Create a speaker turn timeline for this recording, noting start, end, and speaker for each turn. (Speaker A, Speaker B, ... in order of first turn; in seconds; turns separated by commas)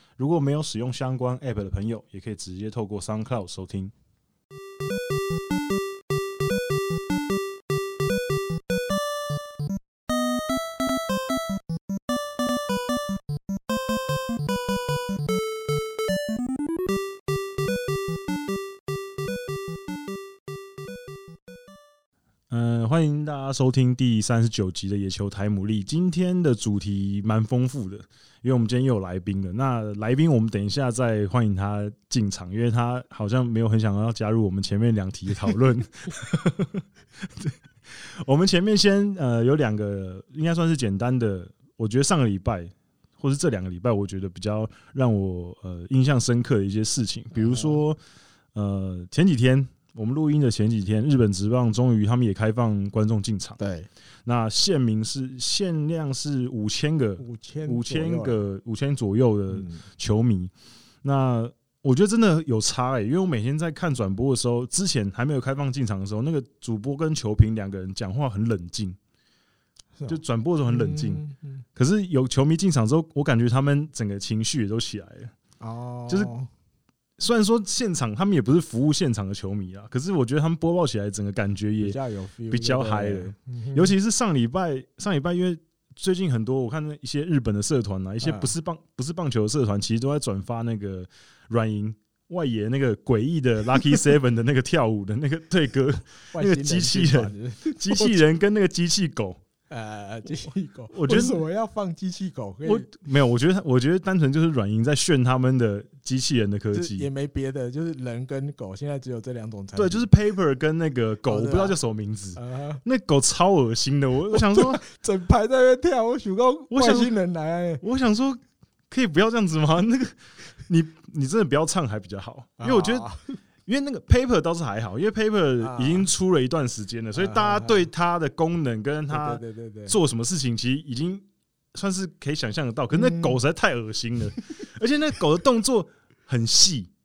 Speaker A: 0.2-3.9, Speaker A: 22.5-48.0, Speaker B: 47.3-47.8, Speaker A: 48.5-53.6, Speaker B: 53.6-53.9, Speaker A: 54.2-60.5, Speaker B: 57.2-58.4, Speaker B: 59.5-59.9, Speaker A: 61.0-69.0, Speaker B: 70.0-71.6, Speaker A: 70.1-71.2, Speaker A: 71.8-75.3, Speaker B: 75.6-76.5, Speaker A: 77.2-82.0, Speaker B: 81.8-83.9, Speaker A: 82.5-99.4, Speaker B: 88.2-88.5, Speaker B: 96.3-98.2, Speaker B: 99.7-102.9, Speaker A: 100.9-101.4, Speaker A: 102.6-107.1, Speaker B: 106.7-110.1, Speaker A: 109.8-114.8, Speaker B: 111.3-111.8, Speaker B: 112.4-112.8, Speaker B: 114.3-117.8, Speaker A: 116.7-117.1, Speaker A: 117.8-123.1, Speaker B: 122.6-123.4, Speaker A: 123.7-136.9, Speaker B: 125.6-126.1, Speaker B: 127.1-127.9, Speaker B: 129.1-130.0, Speaker B: 132.9-133.4